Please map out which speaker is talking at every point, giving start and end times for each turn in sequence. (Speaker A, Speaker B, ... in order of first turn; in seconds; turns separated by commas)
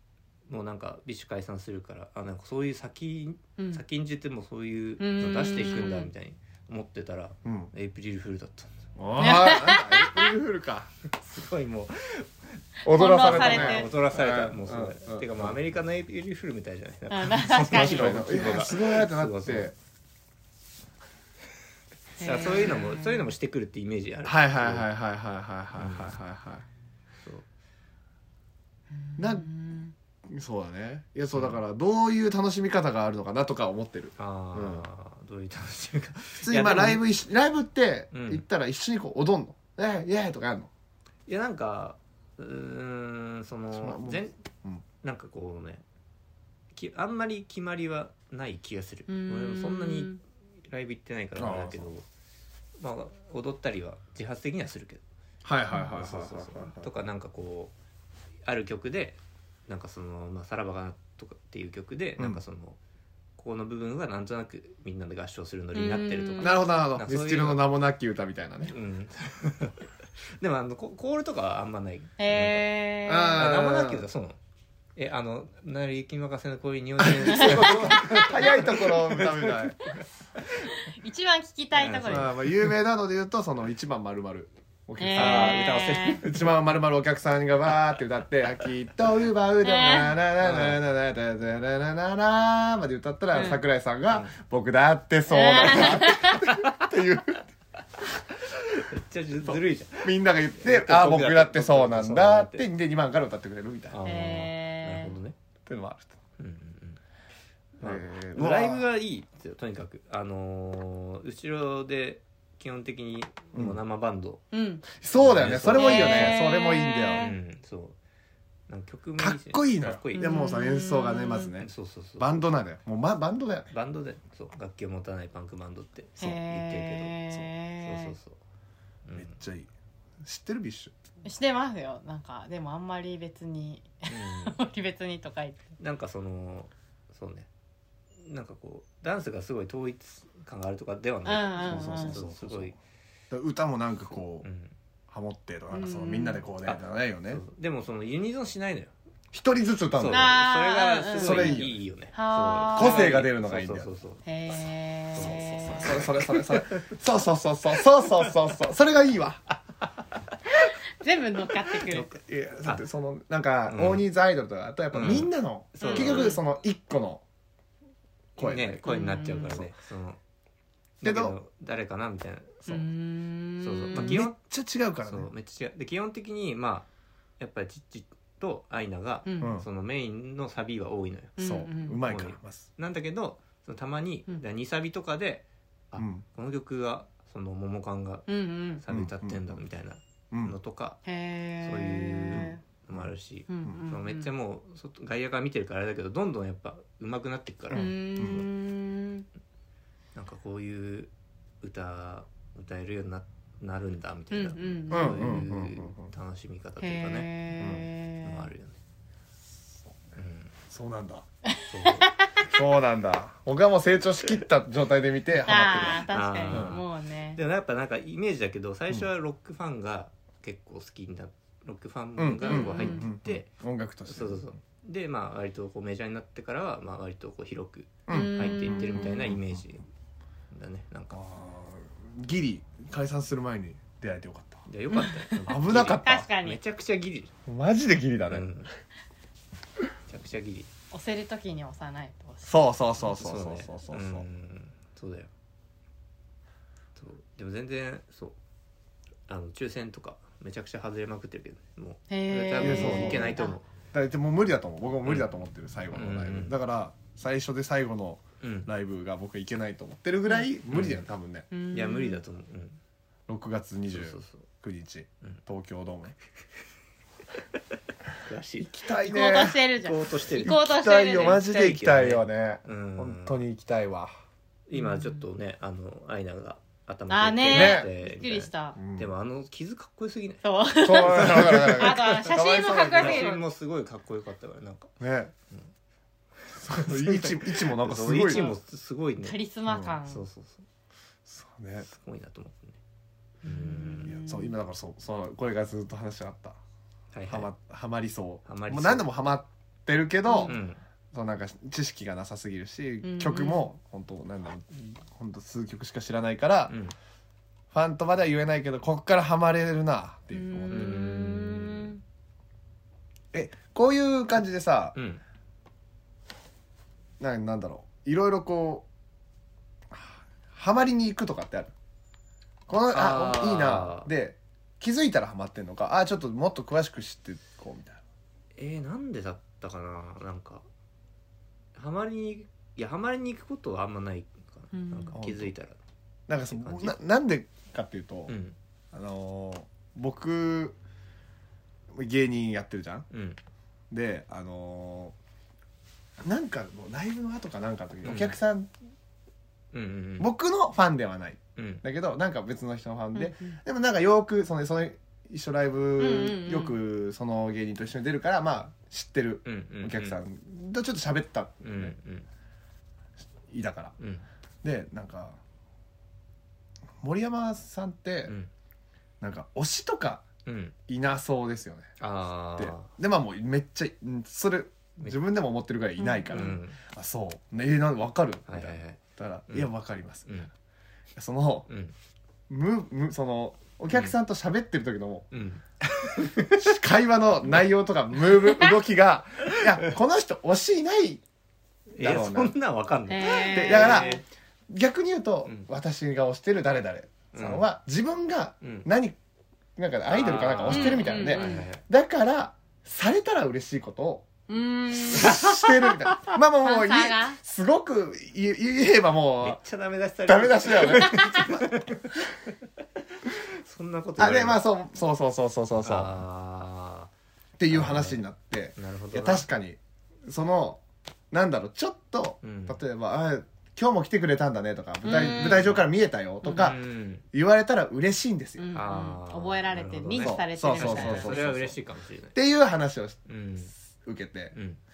Speaker A: 0.5-8.7, Speaker B: 3.6-3.8, Speaker B: 5.0-6.1, Speaker C: 7.4-7.7, Speaker C: 9.0-10.9, Speaker B: 9.2-10.3, Speaker A: 11.1-12.3, Speaker C: 12.8-15.6, Speaker B: 12.8-13.9, Speaker A: 12.9-19.7, Speaker B: 17.1-18.7, Speaker C: 17.7-19.7, Speaker B: 22.2-23.3, Speaker A: 22.2-24.9, Speaker C: 24.2-26.6, Speaker A: 25.7-26.1, Speaker B: 29.0-29.9, Speaker C: 29.2-29.5, Speaker C: 30.3-34.9, Speaker A: 31.3-31.6, Speaker A: 34.2-37.0, Speaker C: 36.4-40.7, Speaker A: 38.1-38.4, Speaker A: 41.3-44.4, Speaker C: 43.7-44.8, Speaker A: 45.0-45.8, Speaker A: 46.7-50.1, Speaker B: 49.1-50.2, Speaker A: 50.7-52.0, Speaker C: 51.4-51.9, Speaker A: 52.8-55.0, Speaker C: 55.4-56.9, Speaker A: 55.9-57.7, Speaker A: 58.4-62.8, Speaker A: 63.4-67.6, Speaker B: 65.7-66.8, Speaker C: 66.4-68.7, Speaker A: 68.7-69.9, Speaker A: 70.4-72.7, Speaker B: 72.2-73.4, Speaker C: 73.0-74.0, Speaker A: 73.3-74.4, Speaker A: 75.0-80.0, Speaker C: 77.0-79.8, Speaker B: 77.3-78.3, Speaker B: 80.7-82.4, Speaker A: 81.7-82.7, Speaker C: 82.0-97.4, Speaker B: 85.0-86.2, Speaker A: 85.1-86.5, Speaker B: 89.6-90.2, Speaker A: 90.4-90.8, Speaker B: 93.3-93.6, Speaker B: 95.3-96.5, Speaker A: 96.4-96.8, Speaker A: 98.3-102.7, Speaker C: 99.4-104.0, Speaker A: 103.9-105.3, Speaker B: 104.0-105.2, Speaker C: 105.7-106.1, Speaker A: 106.4-107.0, Speaker A: 107.8-114.4, Speaker C: 107.8-108.8, Speaker C: 113.5-113.8, Speaker B: 114.5-114.8, Speaker C: 114.9-117.3, Speaker A: 115.2-116.5, Speaker B: 115.7-117.3, Speaker A: 117.1-118.0, Speaker A: 118.7-120.5, Speaker C: 119.2-123.7, Speaker B: 120.1-121.5, Speaker A: 121.6-122.4, Speaker A: 123.7-127.2, Speaker B: 126.2-128.2, Speaker A: 127.8-128.4, Speaker A: 129.0-129.3, Speaker C: 129.1-129.7, Speaker C: 130.2-130.9, Speaker B: 131.2-135.7, Speaker A: 134.1-134.6, Speaker A: 135.8-137.5, Speaker A: 138.2-142.7, Speaker B: 141.2-142.2, Speaker C: 141.6-142.8, Speaker C: 143.3-144.5, Speaker A: 144.4-144.7, Speaker C: 145.1-147.4, Speaker B: 145.7-146.4, Speaker A: 146.6-148.9, Speaker C: 149.3-150.4, Speaker A: 149.9-154.2, Speaker B: 150.1-151.6, Speaker C: 151.2-151.8, Speaker B: 152.1-153.2, Speaker C: 152.7-153.9, Speaker B: 154.2-156.0, Speaker A: 155.1-156.9, Speaker C: 155.2-159.4, Speaker A: 159.8-160.4, Speaker B: 161.0-162.1, Speaker C: 161.9-167.2, Speaker A: 163.7-164.1, Speaker A: 164.9-166.4, Speaker B: 165.8-166.4, Speaker C: 168.4-168.9, Speaker A: 168.4-170.2, Speaker B: 168.8-169.6, Speaker A: 171.0-172.8, Speaker C: 171.0-171.3, Speaker B: 172.7-174.2, Speaker A: 173.6-174.3, Speaker C: 173.9-175.3, Speaker A: 175.0-176.9, Speaker A: 177.4-181.4, Speaker B: 179.2-179.6, Speaker C: 179.4-179.7, Speaker B: 181.4-182.0, Speaker C: 181.4-182.7, Speaker A: 182.0-188.3, Speaker C: 186.0-186.2, Speaker B: 188.3-188.8, Speaker A: 188.8-191.0, Speaker C: 188.9-189.6, Speaker C: 190.3-190.6, Speaker B: 191.0-192.6, Speaker A: 191.6-198.4, Speaker C: 192.3-193.1, Speaker B: 193.5-194.3, Speaker C: 197.7-198.4, Speaker B: 197.7-199.3, Speaker A: 200.1-201.1, Speaker A: 201.6-207.3, Speaker B: 204.3-205.5, Speaker C: 204.9-206.1, Speaker B: 206.8-208.5, Speaker C: 207.6-207.8, Speaker A: 208.2-208.8, Speaker A: 210.1-210.5, Speaker C: 210.7-211.2, Speaker A: 211.7-212.1, Speaker B: 211.8-212.5, Speaker C: 212.4-216.8, Speaker B: 215.4-217.4, Speaker A: 216.1-216.8, Speaker A: 217.3-223.5, Speaker C: 222.2-224.5, Speaker B: 222.4-223.1, Speaker A: 224.1-229.8, Speaker C: 228.1-229.6, Speaker B: 228.1-229.3, Speaker A: 230.5-231.2, Speaker C: 231.1-234.7, Speaker A: 234.7-237.3, Speaker B: 234.9-236.6, Speaker C: 235.4-236.3, Speaker C: 237.4-238.5, Speaker A: 238.3-238.7, Speaker A: 240.1-240.7, Speaker B: 240.9-242.7, Speaker C: 242.4-244.2, Speaker A: 243.0-245.3, Speaker A: 247.0-248.3, Speaker A: 249.3-253.6, Speaker B: 252.1-253.6, Speaker C: 252.6-253.4, Speaker C: 253.9-261.5, Speaker A: 255.0-255.3, Speaker A: 255.9-256.6, Speaker A: 258.4-258.7, Speaker A: 260.7-261.1, Speaker B: 261.5-262.2, Speaker A: 261.7-262.8, Speaker C: 263.3-266.1, Speaker A: 263.9-264.4, Speaker A: 268.2-268.9, Speaker C: 268.7-269.6, Speaker B: 269.0-271.4, Speaker A: 269.8-273.4, Speaker C: 270.3-274.1, Speaker A: 274.7-282.4, Speaker B: 274.7-275.2, Speaker B: 277.1-278.8, Speaker C: 277.5-277.9, Speaker C: 278.8-279.1, Speaker B: 280.4-283.4, Speaker C: 280.8-283.3, Speaker A: 282.9-284.9, Speaker C: 285.0-285.3, Speaker A: 286.4-289.4, Speaker C: 286.5-288.5, Speaker B: 288.1-288.6, Speaker B: 289.2-290.2, Speaker C: 289.7-290.0, Speaker A: 290.0-290.6, Speaker C: 291.3-291.9, Speaker A: 291.8-292.8, Speaker A: 293.4-294.1, Speaker B: 293.4-294.6, Speaker C: 294.0-296.6, Speaker A: 297.1-297.5, Speaker C: 297.3-300.6, Speaker A: 298.4-299.1, Speaker B: 300.3-300.6, Speaker A: 300.4-300.8, Speaker C: 301.1-306.7, Speaker B: 303.0-303.7, Speaker A: 306.7-306.9, Speaker C: 307.7-311.0, Speaker B: 310.3-312.0, Speaker A: 310.7-311.9, Speaker C: 313.3-314.9, Speaker A: 314.9-315.2, Speaker C: 317.2-318.9, Speaker C: 319.9-321.7, Speaker C: 322.7-328.0, Speaker A: 322.9-324.1, Speaker A: 328.6-330.6, Speaker A: 331.7-335.8, Speaker B: 334.7-335.2, Speaker C: 335.1-335.5, Speaker C: 336.3-338.3, Speaker A: 336.5-337.0, Speaker A: 338.3-338.6, Speaker C: 338.9-340.8, Speaker C: 341.9-343.1, Speaker A: 343.1-343.4, Speaker C: 343.9-345.1, Speaker C: 346.2-348.7, Speaker A: 348.0-348.4, Speaker A: 349.7-350.3, Speaker C: 350.2-361.9, Speaker A: 351.6-351.8, Speaker B: 353.1-353.6, Speaker B: 356.0-356.8, Speaker A: 359.4-360.2, Speaker A: 361.6-362.3, Speaker C: 363.5-363.9, Speaker A: 364.0-364.2, Speaker C: 364.6-365.4, Speaker C: 367.0-368.3, Speaker C: 369.2-370.2, Speaker A: 370.4-370.7, Speaker C: 370.9-371.9, Speaker A: 372.0-372.9, Speaker C: 372.6-380.4, Speaker B: 376.0-376.6, Speaker A: 376.3-376.8, Speaker A: 378.5-379.7, Speaker C: 381.1-381.7, Speaker A: 381.7-381.9, Speaker C: 382.5-385.3, Speaker A: 383.9-384.1, Speaker A: 385.3-386.8, Speaker C: 386.4-391.2, Speaker A: 389.5-389.8, Speaker A: 391.9-394.2, Speaker C: 392.0-392.5, Speaker B: 393.1-394.2, Speaker C: 393.5-399.2, Speaker A: 397.3-397.7, Speaker A: 398.6-398.9, Speaker C: 399.8-404.3, Speaker A: 400.1-401.8, Speaker B: 400.6-401.6, Speaker B: 404.5-405.9, Speaker C: 404.9-409.6, Speaker A: 405.2-405.6, Speaker B: 406.6-407.4, Speaker A: 409.4-412.3, Speaker C: 410.2-411.8, Speaker A: 413.2-414.6, Speaker C: 414.2-416.1, Speaker A: 415.8-417.1, Speaker C: 417.6-426.8, Speaker A: 417.7-418.2, Speaker A: 418.8-419.5, Speaker A: 422.4-422.8, Speaker B: 425.0-425.7, Speaker A: 425.1-425.8, Speaker A: 426.4-427.2, Speaker C: 427.3-428.7, Speaker B: 428.6-431.4, Speaker A: 428.7-432.4, Speaker C: 430.2-431.8, Speaker C: 432.3-433.2, Speaker A: 433.3-433.7, Speaker C: 434.0-434.5, Speaker A: 434.5-434.8